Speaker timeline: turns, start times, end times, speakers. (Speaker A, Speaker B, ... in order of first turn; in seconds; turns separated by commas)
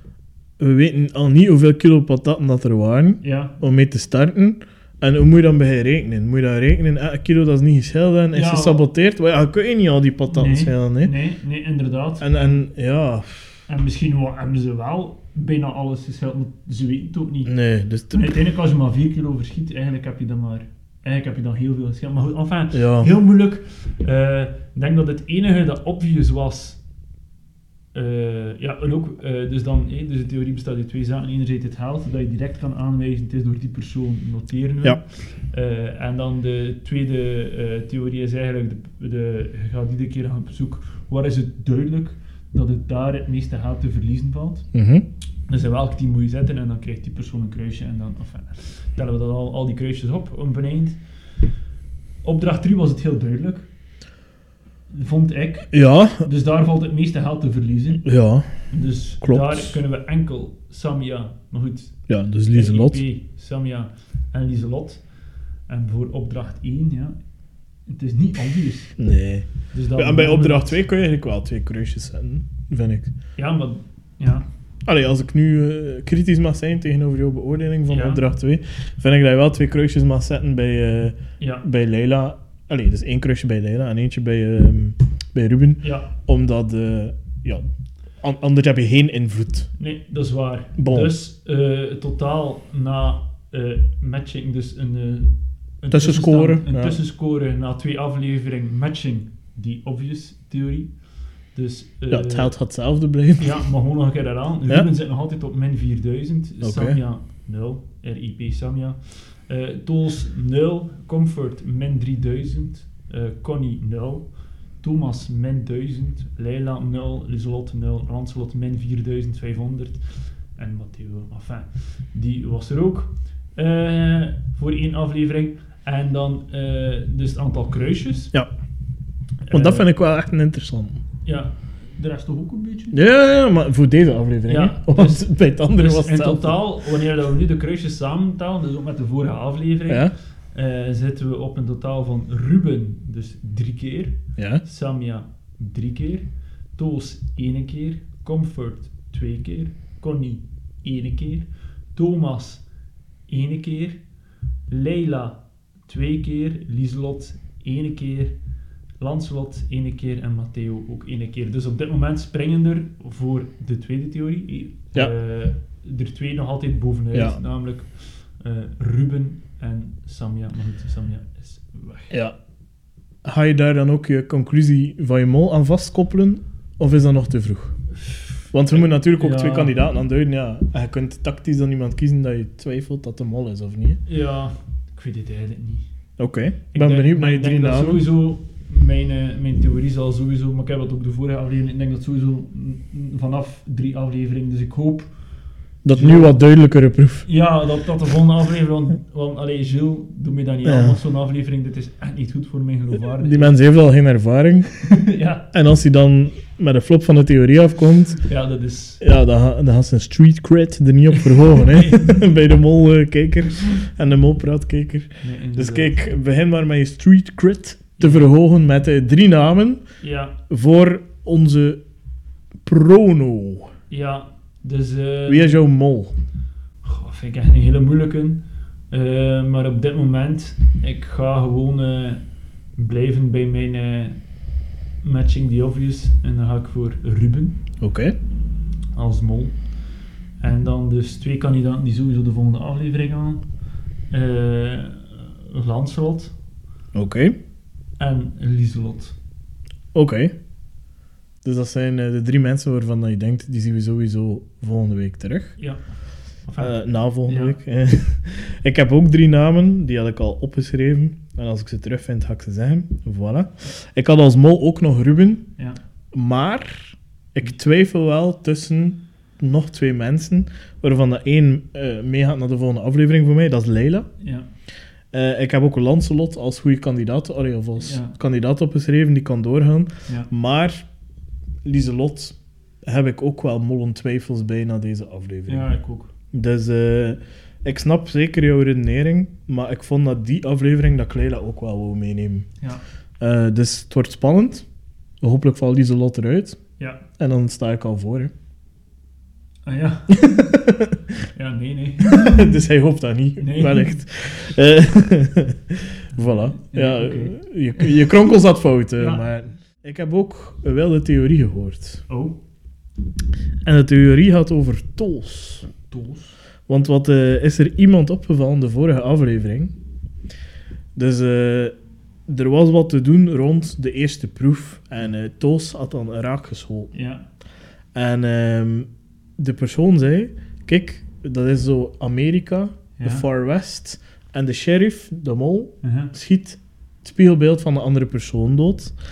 Speaker A: 0.6-11.1, Speaker B: 3.2-3.6, Speaker B: 8.3-8.8, Speaker B: 10.3-12.3, Speaker A: 12.2-13.6, Speaker B: 13.7-17.5, Speaker A: 17.4-18.3, Speaker B: 18.1-26.8, Speaker A: 22.7-23.1, Speaker B: 27.9-44.7, Speaker A: 44.7-45.1, Speaker B: 45.5-51.0, Speaker B: 52.2-53.7, Speaker B: 54.9-58.0, Speaker A: 55.7-56.2, Speaker A: 58.0-58.5, Speaker B: 58.7-62.0, Speaker A: 59.2-59.7, Speaker A: 62.1-63.0, Speaker B: 62.5-65.0, Speaker B: 65.7-67.2, Speaker B: 67.9-68.9, Speaker A: 69.0-73.1, Speaker B: 69.7-70.8, Speaker B: 73.4-74.5, Speaker A: 74.8-87.7, Speaker B: 77.9-78.2, Speaker B: 81.4-81.7, Speaker B: 85.8-86.1, Speaker A: 88.2-89.7, Speaker B: 89.8-100.9, Speaker A: 90.8-91.1, Speaker A: 95.9-97.0, Speaker B: 101.5-102.5, Speaker A: 102.1-103.6, Speaker B: 103.4-114.3, Speaker A: 106.6-107.0, Speaker B: 114.8-120.0, Speaker B: 120.6-128.3, Speaker B: 129.5-129.9, Speaker A: 129.5-131.0, Speaker B: 131.2-133.0, Speaker A: 132.9-136.6, Speaker B: 134.5-152.6, Speaker A: 144.4-144.6, Speaker B: 153.3-154.0, Speaker B: 154.7-158.3, Speaker B: 159.0-167.9, Speaker B: 168.4-172.1, Speaker A: 173.2-177.8, Speaker B: 178.1-179.7, Speaker A: 178.5-184.0, Speaker B: 184.1-185.8, Speaker A: 186.2-188.1, Speaker B: 186.7-195.1, Speaker A: 195.8-197.3, Speaker B: 195.9-196.3, Speaker B: 197.2-203.6, Speaker A: 200.7-201.0, Speaker A: 203.2-204.7, Speaker B: 204.8-205.4, Speaker A: 205.5-208.2, Speaker B: 208.3-209.0, Speaker A: 209.0-219.8, Speaker B: 211.5-212.2, Speaker B: 215.2-216.0, Speaker B: 218.0-218.3, Speaker B: 220.0-220.3, Speaker A: 220.5-221.8, Speaker A: 222.7-223.7, Speaker B: 223.9-225.6, Speaker A: 225.3-226.1, Speaker B: 226.8-232.2, Speaker B: 232.8-234.2, Speaker B: 235.0-237.6, Speaker A: 237.8-238.2, Speaker B: 238.9-239.6, Speaker B: 240.4-243.4, Speaker B: 244.1-246.3, Speaker A: 246.9-247.3, Speaker B: 248.0-249.2, Speaker A: 249.9-250.3, Speaker A: 251.4-255.5, Speaker B: 256.5-256.8, Speaker A: 256.6-265.4, Speaker B: 257.3-257.6, Speaker A: 266.1-274.1, Speaker B: 274.2-274.5, Speaker A: 275.1-280.9, Speaker B: 277.8-278.1, Speaker A: 281.6-285.7, Speaker B: 285.5-286.1, Speaker A: 286.3-292.5, Speaker A: 293.2-294.7, Speaker A: 295.2-296.6, Speaker A: 297.2-298.3, Speaker B: 299.7-300.5, Speaker A: 300.1-301.0, Speaker B: 301.3-302.6, Speaker A: 302.0-312.0, Speaker B: 303.4-304.0, Speaker B: 306.2-307.9, Speaker B: 309.0-309.2, Speaker B: 312.1-312.4, Speaker A: 313.6-315.7, Speaker B: 315.9-316.4, Speaker A: 316.7-319.7, Speaker A: 320.9-321.7, Speaker A: 322.3-326.9, Speaker B: 326.9-327.2, Speaker A: 327.9-338.9, Speaker B: 333.0-333.2, Speaker B: 335.8-336.1